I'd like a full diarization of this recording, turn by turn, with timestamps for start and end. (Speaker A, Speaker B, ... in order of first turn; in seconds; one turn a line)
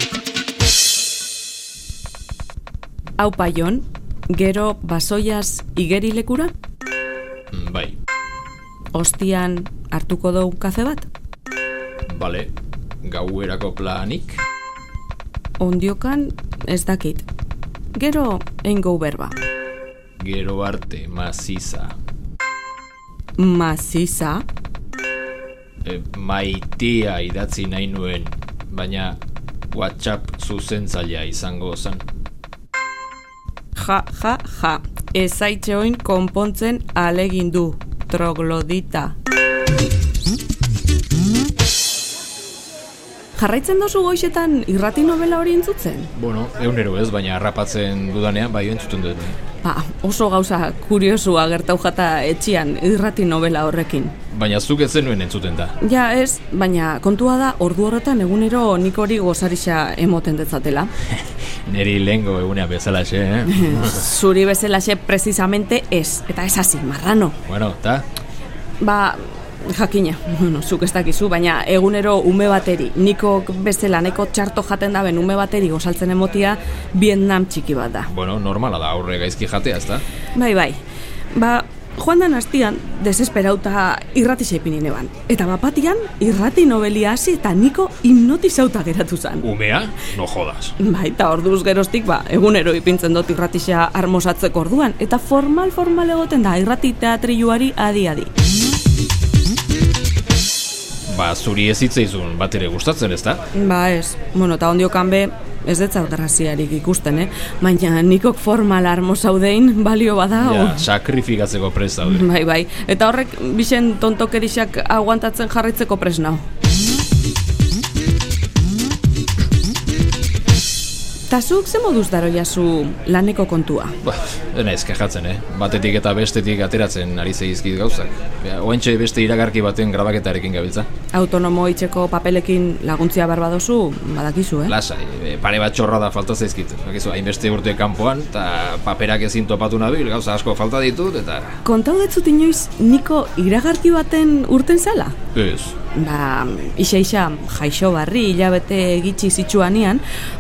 Speaker A: 3.2-6.5
Speaker B: 7.5-8.0
Speaker A: 8.9-11.1
Speaker B: 12.1-12.5
Speaker B: 13.0-14.4
Speaker A: 15.6-17.3
Speaker A: 17.9-19.4
Speaker B: 20.2-22.0
Speaker A: 23.4-24.4
Speaker B: 25.8-29.2
Speaker B: 29.7-32.0
Speaker A: 33.8-39.1
Speaker A: 43.4-46.1
Speaker B: 46.1-49.4
Speaker A: 49.6-54.1
Speaker B: 54.3-55.8
Speaker A: 55.8-60.9
Speaker B: 61.7-64.0
Speaker A: 63.5-67.4
Speaker B: 67.5-68.1
Speaker A: 68.8-78.1
Speaker B: 78.1-80.0
Speaker A: 80.3-89.5
Speaker B: 89.4-90.8
Speaker A: 90.8-98.3
Speaker B: 101.1-103.4
Speaker A: 103.5-110.9
Speaker B: 110.4-112.3
Speaker A: 112.0-116.5
Speaker A: 121.3-124.0
Speaker B: 124.0-130.9
Speaker A: 131.1-134.8
Speaker B: 134.7-141.6
Speaker A: 141.6-145.2
Speaker B: 145.3-145.8
Speaker A: 145.9-150.0